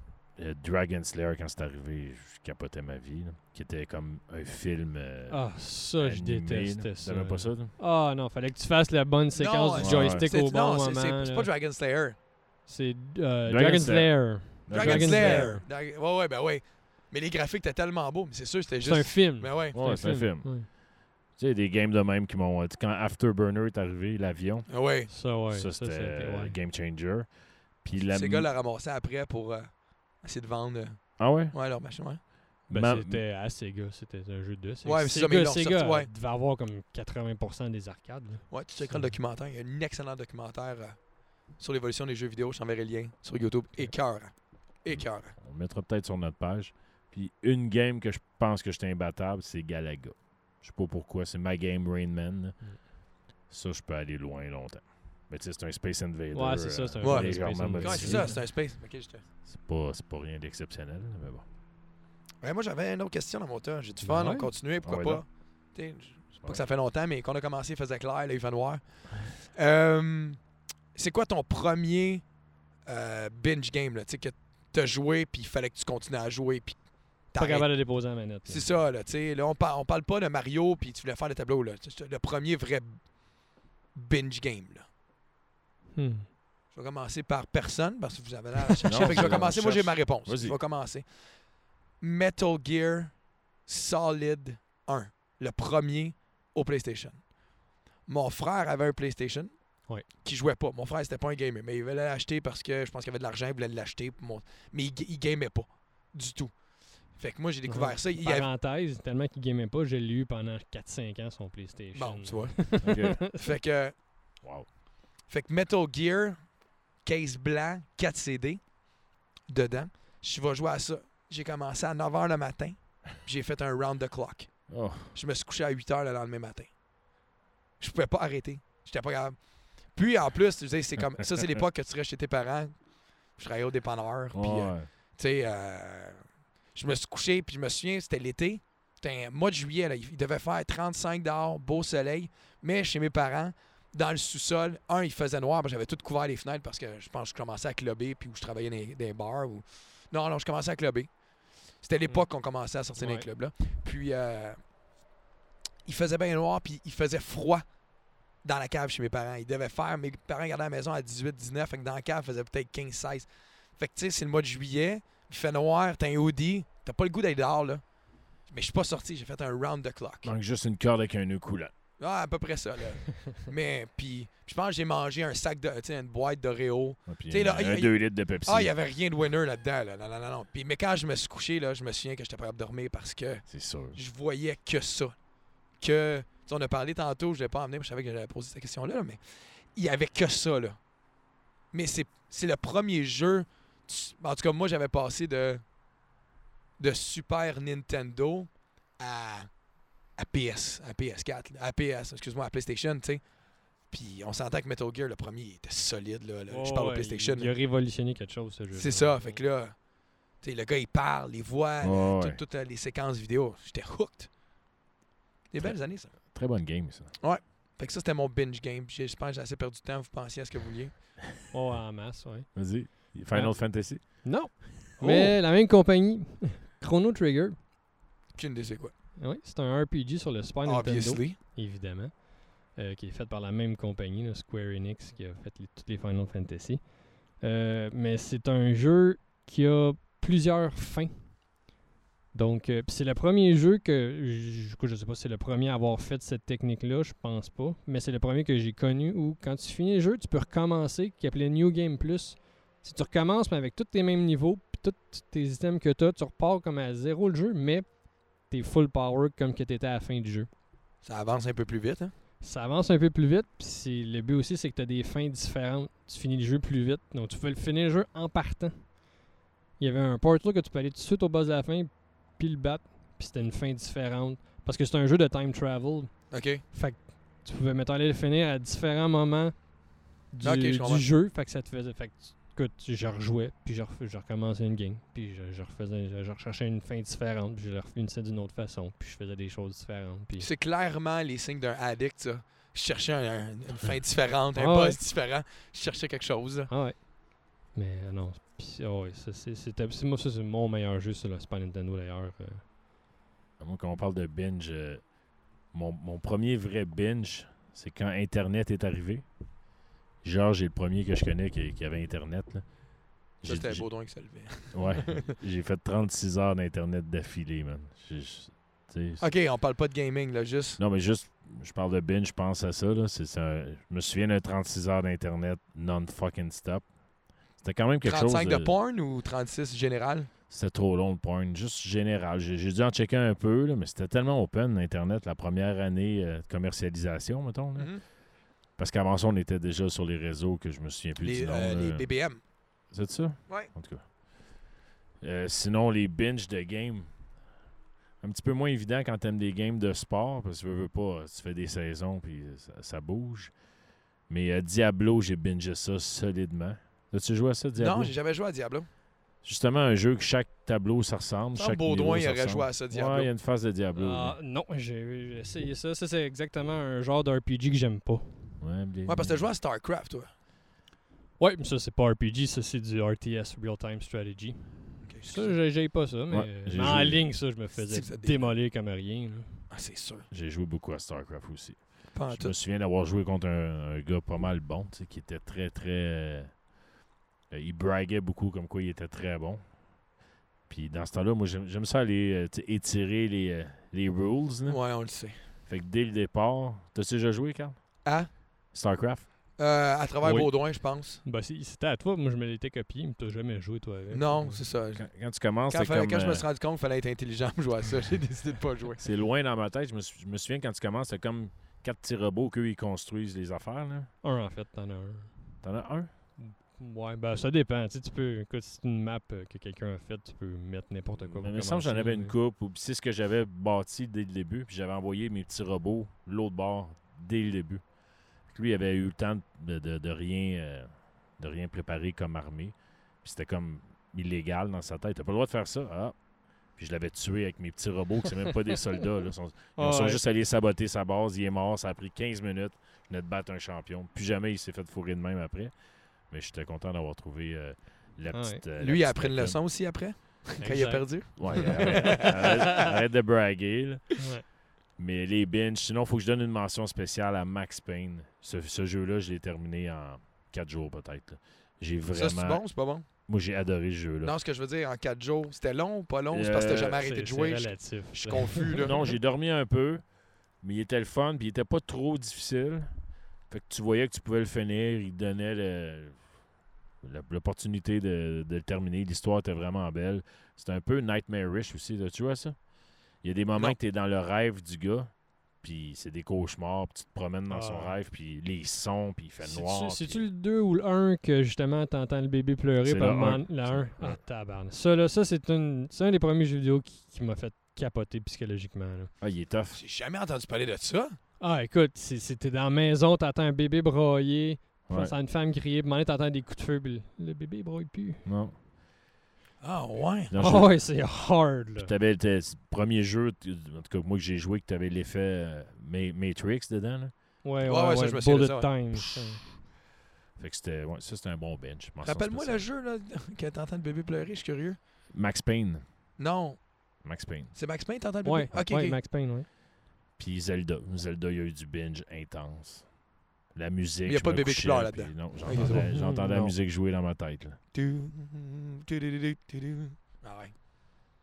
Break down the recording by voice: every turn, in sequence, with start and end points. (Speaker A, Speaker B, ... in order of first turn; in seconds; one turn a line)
Speaker A: 0.4-7.8
Speaker B: 5.3-11.5
Speaker C: 9.3-12.2
Speaker A: 9.8-10.3
Speaker B: 12.7-15.7
Speaker A: 13.5-15.6
Speaker C: 14.7-19.8
Speaker B: 18.8-20.7
Speaker A: 19.7-24.8
Speaker C: 24.7-25.1
Speaker B: 25.1-26.6
Speaker A: 25.4-28.5
Speaker C: 28.1-32.2
Speaker A: 31.2-31.6
Speaker B: 32.7-39.2
Speaker A: 32.7-33.2
Speaker C: 34.8-36.1
Speaker C: 38.5-45.4
Speaker A: 44.9-52.9
Speaker A: 53.5-58.5
Speaker B: 56.3-58.4
Speaker C: 57.0-59.3
Speaker A: 59.5-61.5
Speaker C: 62.4-70.4
Speaker B: 64.0-64.5
Speaker A: 64.8-65.2
Speaker A: 66.3-66.7
Speaker C: 70.9-72.3
Speaker C: 72.9-84.9
Speaker B: 77.3-78.7
Speaker B: 86.0-86.3
Speaker C: 86.7-97.3
Speaker A: 88.8-90.6
Speaker C: 98.0-108.5
Speaker B: 107.7-113.4
Speaker C: 111.9-114.1
Speaker A: 112.8-113.2
Speaker A: 114.4-114.7
Speaker C: 115.3-118.8
Speaker C: 119.5-126.8
Speaker A: 124.7-125.2
Speaker C: 127.8-154.7
Speaker A: 134.3-134.9
Speaker B: 152.1-153.3
Speaker C: 155.8-157.8
Speaker C: 158.4-170.3
Speaker A: 170.2-171.7
Speaker C: 172.0-185.2
Speaker A: 177.1-178.7
Speaker A: 183.5-184.0
Speaker C: 185.7-190.9
Speaker C: 191.7-195.7
Speaker C: 196.8-199.5
Speaker C: 200.1-203.2
Speaker C: 203.8-207.5
Speaker B: 206.5-209.4
Speaker C: 208.7-214.3
Speaker A: 211.8-212.4
Speaker C: 215.5-216.3
Speaker A: 215.6-217.2
Speaker C: 217.2-221.0
Speaker B: 221.5-227.6
Speaker A: 222.5-224.4
Speaker C: 225.0-225.4
Speaker C: 228.3-228.9
Speaker B: 229.2-241.5
Speaker C: 230.7-231.4
Speaker B: 242.3-260.5
Speaker C: 261.0-262.1
Speaker B: 262.4-269.1
Speaker B: 269.8-290.5
Speaker C: 276.3-276.6
Speaker C: 280.4-281.1
Speaker C: 290.4-296.7
Speaker B: 294.6-295.0
Speaker B: 296.7-302.6
Speaker A: 303.6-309.3
Speaker A: 310.2-312.7
Speaker A: 313.4-313.9
Speaker C: 313.4-315.4
Speaker A: 314.7-319.3
Speaker C: 319.2-320.8
Speaker A: 320.8-326.9
Speaker A: 327.5-328.8
Speaker C: 328.0-330.3
Speaker A: 330.5-338.2
Speaker C: 337.8-338.0
Speaker A: 338.8-344.2
Speaker C: 341.2-342.4
Speaker A: 345.2-347.4
Speaker A: 348.2-353.6
Speaker A: 354.3-358.1
Speaker C: 357.8-358.9
Speaker A: 359.4-364.4
Speaker C: 361.6-363.3
Speaker B: 363.9-368.6
Speaker A: 368.6-369.4
Speaker C: 369.1-370.3
Speaker B: 371.4-379.7
Speaker C: 375.0-375.6
Speaker A: 376.3-377.4
Speaker C: 377.7-378.6
Speaker C: 379.7-380.3
Speaker A: 380.3-386.6
Speaker C: 382.1-382.5
Speaker A: 387.5-390.0
Speaker A: 390.7-398.2
Speaker C: 394.7-395.4
Speaker C: 398.0-398.3
Speaker A: 398.7-399.3
Speaker C: 399.6-401.2
Speaker B: 400.2-404.7
Speaker C: 404.1-409.0
Speaker A: 404.9-406.5
Speaker A: 409.0-414.1
Speaker B: 414.2-415.6
Speaker A: 415.6-416.1
Speaker B: 416.4-422.3
Speaker A: 421.2-449.6
Speaker B: 439.8-440.2
Speaker B: 448.3-448.6
Speaker C: 448.8-452.6
Speaker B: 450.6-452.3
Speaker A: 451.4-454.3
Speaker B: 454.2-454.5
Speaker A: 455.0-464.4
Speaker C: 462.1-463.1
Speaker C: 464.2-469.0
Speaker A: 466.3-467.0
Speaker B: 467.0-469.1
Speaker A: 468.8-476.5
Speaker A: 477.0-490.3
Speaker B: 487.5-488.0
Speaker B: 489.4-499.1
Speaker A: 492.8-494.2
Speaker A: 499.2-499.8
Speaker C: 499.7-501.2
Speaker B: 501.4-508.2
Speaker A: 504.9-505.2
Speaker A: 508.2-508.6
Speaker C: 509.6-510.4
Speaker A: 510.3-511.1
Speaker B: 510.4-511.9
Speaker A: 511.8-517.1
Speaker B: 517.4-519.5
Speaker C: 517.6-518.8
Speaker A: 520.4-522.7
Speaker C: 522.0-524.8
Speaker A: 525.1-525.9
Speaker C: 526.2-529.0
Speaker A: 527.0-527.5
Speaker B: 528.2-529.5
Speaker A: 530.2-533.0
Speaker A: 533.5-537.6
Speaker C: 534.1-535.9
Speaker B: 535.5-536.5
Speaker C: 537.7-541.0